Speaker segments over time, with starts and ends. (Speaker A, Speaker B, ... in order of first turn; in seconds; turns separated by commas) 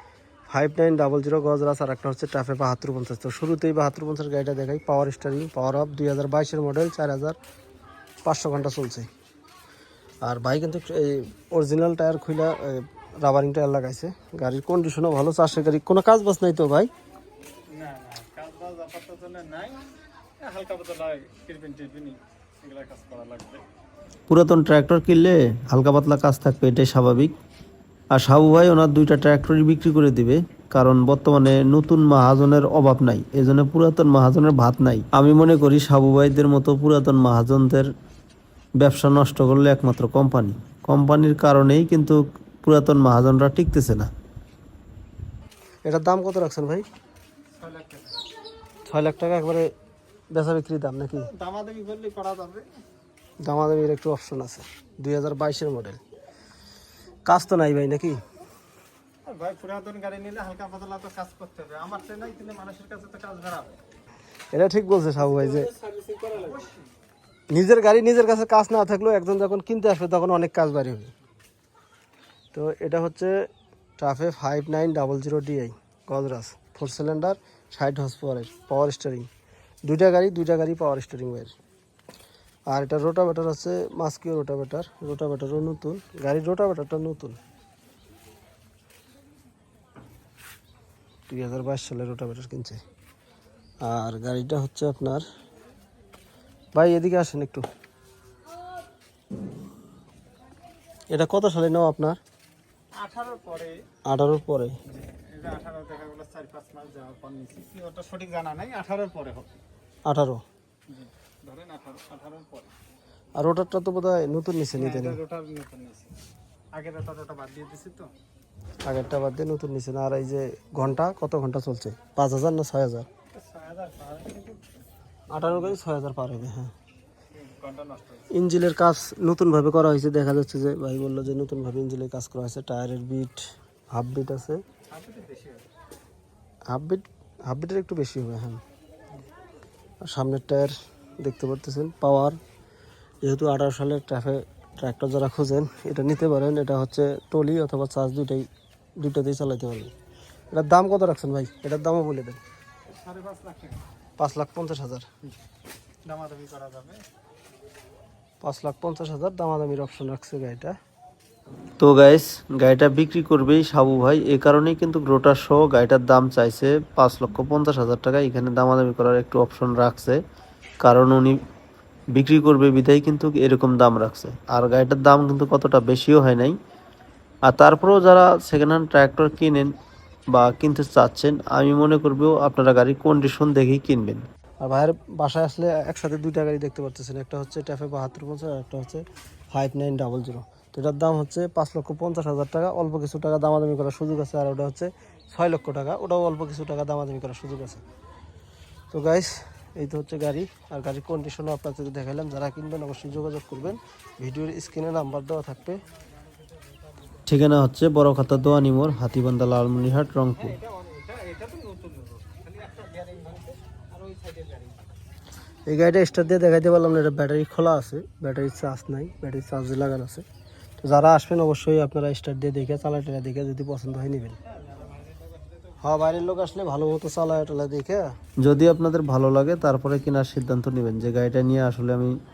Speaker A: 0.5-7.4, Speaker A: 8.2-9.1, Speaker A: 10.2-16.9, Speaker B: 17.7-19.9, Speaker B: 20.4-23.6, Speaker C: 24.3-27.3, Speaker C: 28.1-37.9, Speaker C: 38.8-44.1, Speaker A: 45.8-46.8, Speaker B: 47.6-48.2, Speaker A: 48.9-49.7, Speaker A: 50.3-51.3, Speaker B: 51.1-52.7, Speaker A: 53.4-56.0, Speaker A: 57.2-58.2, Speaker B: 59.2-63.8, Speaker A: 64.5-65.7, Speaker B: 65.3-66.8, Speaker A: 67.5-71.1, Speaker A: 72.5-73.3, Speaker A: 74.0-79.3, Speaker A: 79.8-81.5, Speaker A: 82.7-87.4, Speaker A: 91.3-92.8, Speaker A: 93.8-95.2, Speaker A: 96.7-97.6, Speaker A: 101.1-102.2, Speaker B: 103.0-103.8, Speaker A: 104.1-104.8, Speaker B: 104.8-109.6, Speaker A: 110.0-110.4, Speaker B: 110.9-112.7, Speaker A: 113.3-115.2, Speaker B: 114.7-116.1, Speaker B: 116.7-118.1, Speaker A: 118.8-123.1, Speaker B: 123.3-124.8, Speaker A: 125.3-126.7, Speaker B: 125.3-125.8, Speaker B: 127.3-128.3, Speaker A: 128.3-134.6, Speaker B: 134.9-135.6, Speaker A: 136.7-138.6, Speaker A: 140.0-142.4, Speaker A: 143.2-148.5, Speaker A: 149.0-149.9, Speaker A: 150.5-152.4, Speaker B: 152.9-153.8, Speaker A: 154.2-155.1, Speaker B: 156.1-157.0, Speaker A: 158.4-160.8, Speaker C: 161.8-170.2, Speaker C: 170.8-171.4, Speaker C: 172.1-176.6, Speaker C: 177.5-179.7, Speaker C: 180.3-184.2, Speaker A: 184.6-197.8, Speaker A: 198.9-205.8, Speaker B: 206.3-207.2, Speaker C: 207.3-210.6, Speaker B: 210.4-214.8, Speaker A: 215.7-220.2, Speaker A: 220.8-224.4, Speaker B: 224.5-226.6, Speaker A: 225.8-228.1, Speaker C: 228.4-232.1